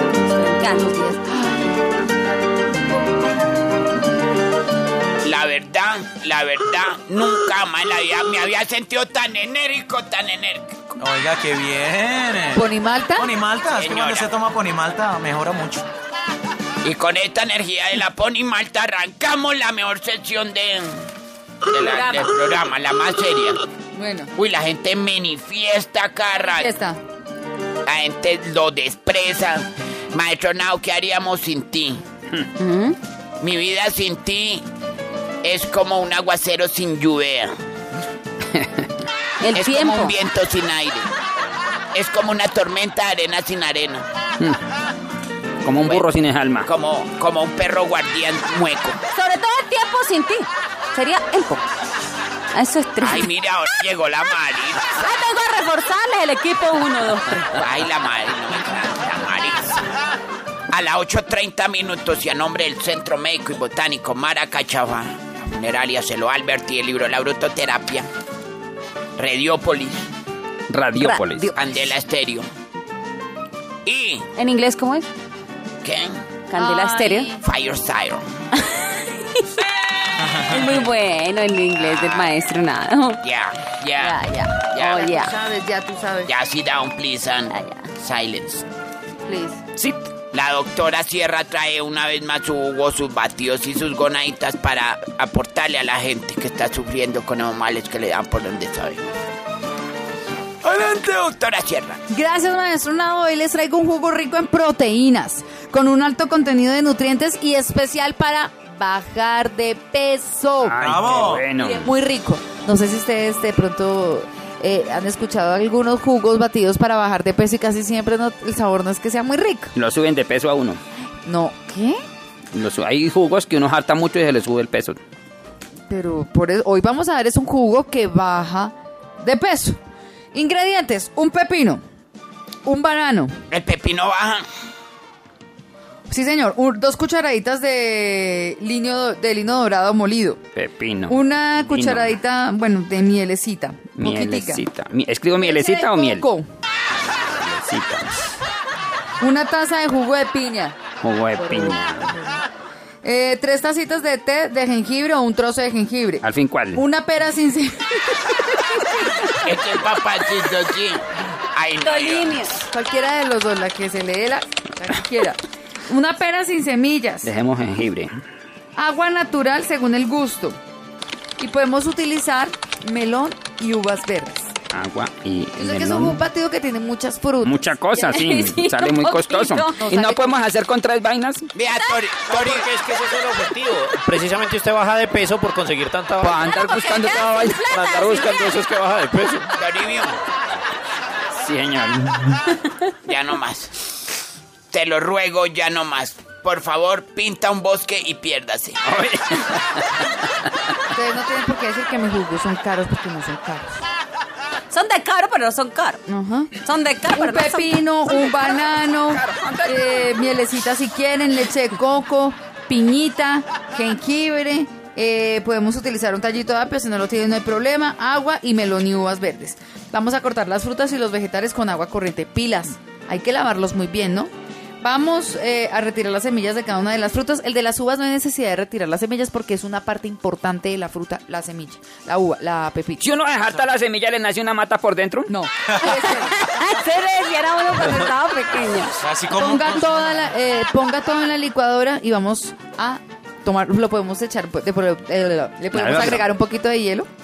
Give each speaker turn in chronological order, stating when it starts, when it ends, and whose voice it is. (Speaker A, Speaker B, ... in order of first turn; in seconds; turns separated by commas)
Speaker A: 0.3-1.4, Speaker B: 5.2-10.8, Speaker C: 11.0-12.6, Speaker D: 12.5-13.3, Speaker C: 13.2-15.9, Speaker B: 13.8-14.3, Speaker B: 16.8-21.0, Speaker B: 21.7-23.6, Speaker D: 23.9-24.3, Speaker B: 24.4-26.7, Speaker D: 26.5-27.0, Speaker B: 27.9-32.0, Speaker A: 32.6-33.0, Speaker B: 33.4-34.6, Speaker B: 35.4-37.5, Speaker A: 39.4-40.2, Speaker B: 39.5-41.1, Speaker B: 41.9-44.1, Speaker E: 45.6-46.7, Speaker B: 45.8-46.1, Speaker B: 46.6-49.0, Speaker A: 49.1-51.7, Speaker A: 52.5-53.9, Speaker B: 53.0-55.0, Speaker A: 54.9-57.6, Speaker B: 57.6-59.8, Speaker B: 60.7-68.1, Speaker B: 69.2-70.1, Speaker E: 70.7-71.5, Speaker A: 71.0-71.7, Speaker B: 71.5-72.5, Speaker B: 73.9-74.3, Speaker A: 74.4-75.0, Speaker B: 75.8-76.2, Speaker A: 76.5-77.3, Speaker D: 76.5-77.4, Speaker B: 77.4-78.2, Speaker A: 78.6-79.7, Speaker A: 80.3-83.2, Speaker B: 81.8-82.3, Speaker B: 83.2-85.1, Speaker A: 84.0-85.3, Speaker D: 84.8-86.3, Speaker B: 86.3-88.7, Speaker A: 87.5-87.9, Speaker D: 89.2-89.6, Speaker B: 90.3-99.0, Speaker B: 100.6-102.0, Speaker C: 100.8-101.2, Speaker D: 102.1-110.8, Speaker E: 110.6-111.9, Speaker C: 110.8-111.5, Speaker D: 111.5-119.7, Speaker E: 119.8-120.8, Speaker D: 121.2-122.0, Speaker E: 122.5-125.0, Speaker D: 125.9-129.8, Speaker D: 130.3-131.8, Speaker D: 132.7-133.3, Speaker B: 133.5-134.5, Speaker D: 136.1-140.4, Speaker E: 140.6-142.1, Speaker D: 141.1-144.7, Speaker E: 144.0-146.3, Speaker D: 145.4-146.5, Speaker E: 146.9-148.2, Speaker D: 149.2-150.8, Speaker E: 151.0-152.2, Speaker D: 151.4-152.4, Speaker D: 153.0-159.0, Speaker E: 156.2-156.8, Speaker A: 158.9-159.2, Speaker B: 159.3-162.5, Speaker A: 161.8-162.6, Speaker D: 162.7-167.3, Speaker E: 167.2-168.1, Speaker D: 168.8-170.6, Speaker D: 171.4-174.5, Speaker E: 174.7-176.2, Speaker D: 175.6-177.8, Speaker E: 177.4-181.5, Speaker A: 177.9-179.8, Speaker D: 179.6-180.4, Speaker B: 181.5-182.7, Speaker A: 181.7-182.1, Speaker F: 182.2-186.7, Speaker E: 186.2-188.4, Speaker A: 186.5-188.5, Speaker F: 187.6-189.5, Speaker B: 189.6-190.2, Speaker E: 191.3-192.5, Speaker B: 193.1-193.9, Speaker B: 194.7-198.8, Speaker E: 198.8-200.0, Speaker D: 200.9-203.8, Speaker A: 204.7-208.0, Speaker D: 206.1-206.6, Speaker D: 207.1-224.3, Speaker E: 208.1-210.0, Speaker D: 224.8-233.1, Speaker E: 233.0-235.3, Speaker D: 235.3-236.4, Speaker A: 235.9-239.0, Speaker C: 239.0-240.1, Speaker D: 239.3-247.1, Speaker E: 245.7-246.2